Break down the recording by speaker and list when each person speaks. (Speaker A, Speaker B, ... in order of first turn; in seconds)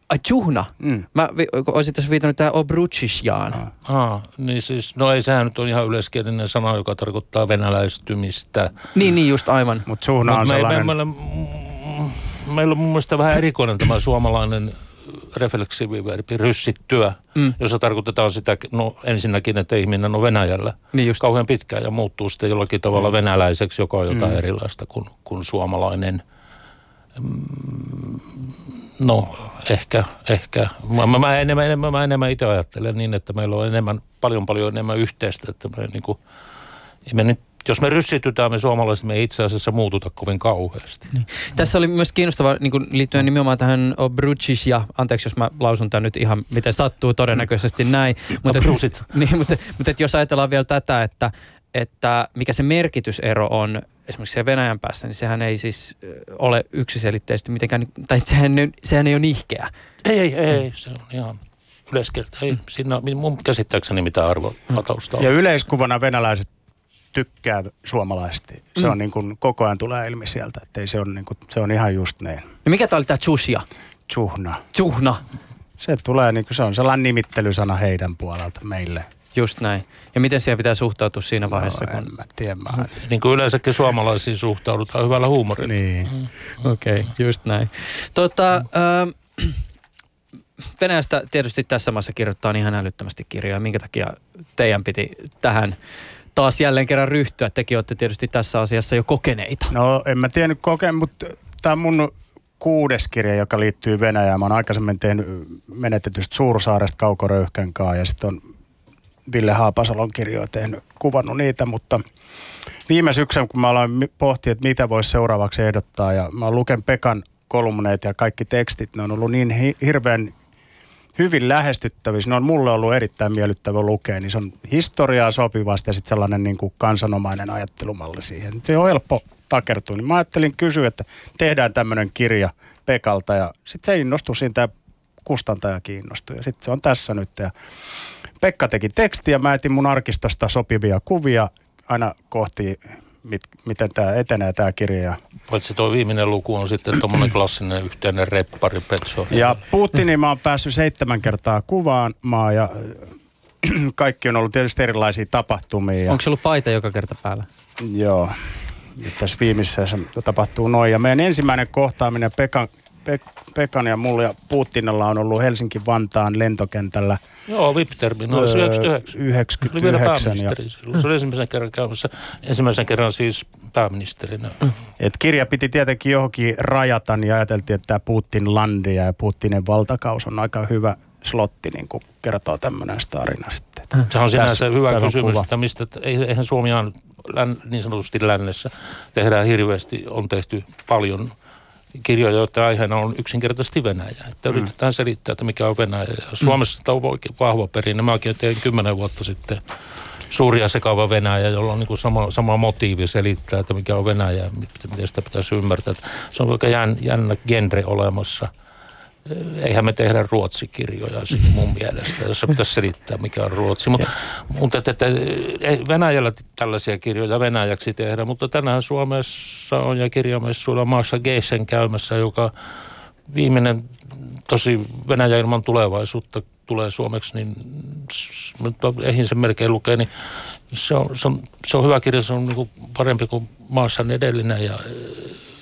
Speaker A: 0.1-3.6, 8.9-9.9, 20.9-21.2, 41.4-59.7, 72.7-73.7, 74.7-75.2, 79.3-82.1, 86.6-89.6, 90.8-95.8, 96.3-99.7, 156.1-157.5
Speaker B: 3.9-8.8, 10.2-26.2, 27.2-36.2, 37.1-41.1, 48.5-49.0, 60.0-65.3, 82.8-86.2, 145.5-149.5, 167.5-174.6, 184.1-191.3, 192.0-199.6, 200.3-208.5, 209.3-222.5, 223.3-230.1, 230.7-235.4
Speaker C: 9.9-10.9, 65.2-66.5, 67.1-72.5, 74.1-74.6, 75.8-79.1, 81.5-82.9, 85.6-86.1, 99.7-108.4, 109.3-112.0, 112.9-120.3, 121.2-134.7, 135.2-145.2, 149.3-156.2, 157.8-167.2, 168.3-170.6, 175.0-185.5